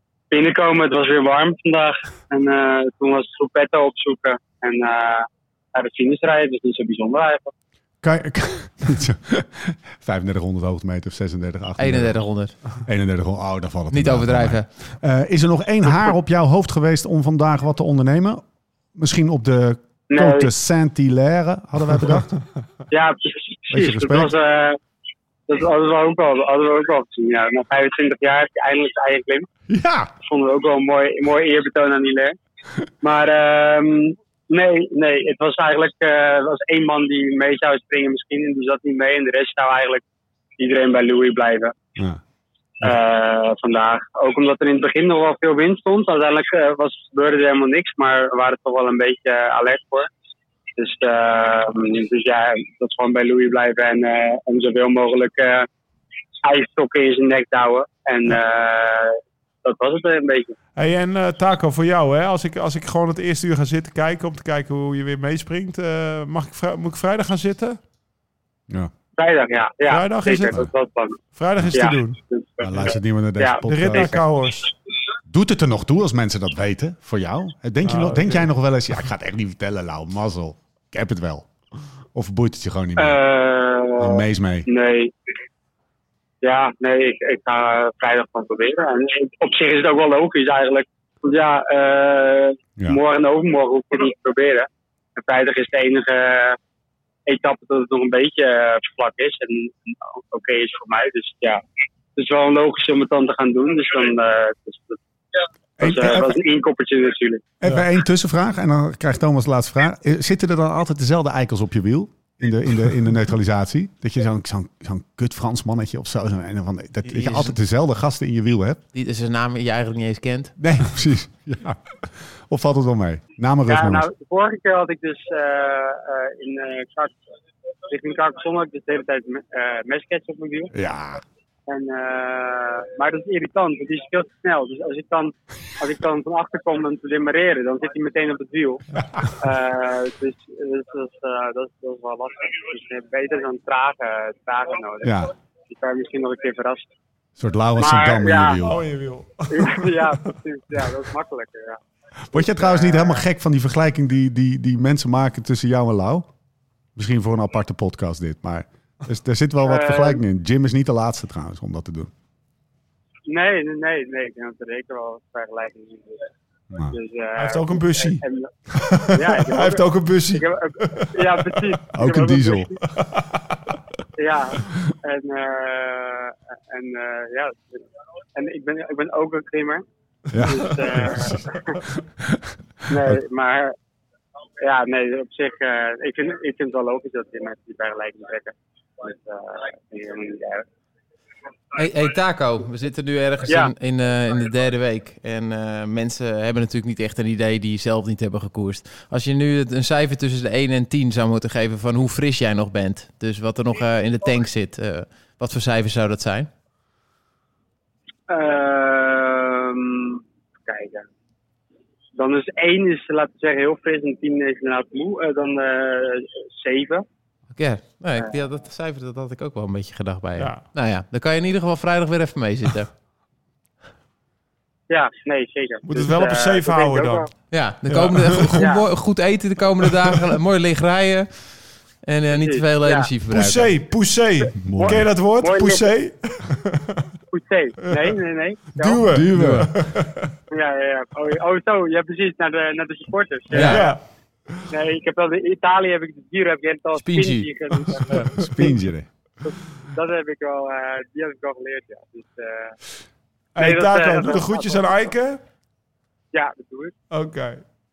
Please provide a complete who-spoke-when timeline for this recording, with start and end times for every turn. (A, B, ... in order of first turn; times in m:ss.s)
0:00.3-0:07.5 A
0:08.0-0:12.2 B
0:11.8-0:12.6 C
0:12.7-0:18.4 B
0:13.9-0:14.7 C
0:18.9-0:22.3 B
0:20.1-0:20.5 A
0:22.9-0:24.8 A
0:23.7-0:24.3 B
0:25.5-0:29.5 A
0:29.7-0:30.1 B
0:30.2-0:32.3 A
0:33.0-0:40.0 A
0:40.6-0:41.7 A
0:42.8-0:50.1 A
0:50.8-0:55.7 A
0:56.4-1:00.5 A
1:00.8-1:07.8 D
1:09.2-1:11.2 A
1:09.9-1:10.6 D
1:11.3-1:12.2 D
1:11.7-1:14.1 A
1:12.6-1:14.2 B
1:13.7-1:14.7 D
1:15.3-1:21.5 B
1:17.8-1:18.5 D
1:22.1-1:23.2 B
1:23.0-1:25.1 A
1:24.0-1:24.7 B
1:26.4-1:36.6 A
1:37.3-1:41.6 A
1:42.2-1:45.0 A
1:45.8-1:47.4 A
1:45.8-1:46.4 B
1:47.6-1:58.8 B
1:57.1-1:57.5 C
1:58.9-2:00.6 C
2:00.6-2:04.1 B
2:03.7-2:07.2 A
2:07.9-2:10.7 A
2:10.7-2:11.2 B
2:11.7-2:26.9 A
2:25.0-2:25.3 B
2:27.4-2:28.8 B
2:27.8-2:28.7 A
2:28.6-2:30.4 D
2:29.5-2:31.8 A
2:32.3-2:36.3 B
2:32.3-2:33.2 A
2:37.0-2:42.1 B
2:39.6-2:40.2 A
2:43.3-2:46.3 A
2:46.9-2:48.5 A
2:47.4-2:51.7 D
2:49.1-2:52.8 A
2:51.9-2:52.7 B
2:52.9-2:53.6 D
2:54.2-2:59.8 A
3:00.3-3:01.4 B
3:00.4-3:01.8 A
3:00.4-3:01.1 D
3:02.0-3:03.2 B
3:02.9-3:03.7 A
3:04.6-3:10.6 A
3:11.7-3:26.5 C
3:28.3-3:31.0 A
3:32.2-3:37.0 A
3:37.6-3:42.9 C
3:40.4-3:40.6 D
3:44.9-3:47.3 A
3:45.8-3:47.3 D
3:47.5-3:51.4 C
3:47.8-3:48.6 D
3:48.6-3:48.9 A
3:52.0-3:53.7 C
3:52.4-3:53.1 A
3:53.3-3:57.0 D
3:54.6-3:55.1 B
3:54.8-3:55.9 A
3:57.3-3:59.1 A
3:57.8-3:58.2 D
3:58.8-4:00.3 D
3:59.1-3:59.8 B
3:59.3-3:59.6 C
4:00.5-4:04.0 A
4:03.5-4:03.8 C
4:03.6-4:04.0 D
4:04.7-4:08.3 A
4:07.0-4:07.5 C
4:08.1-4:08.7 D
4:08.1-4:09.1 B
4:09.4-4:12.7 A
4:13.6-4:15.4 D
4:13.6-4:14.9 A
4:16.3-4:16.9 A
4:17.1-4:17.6 D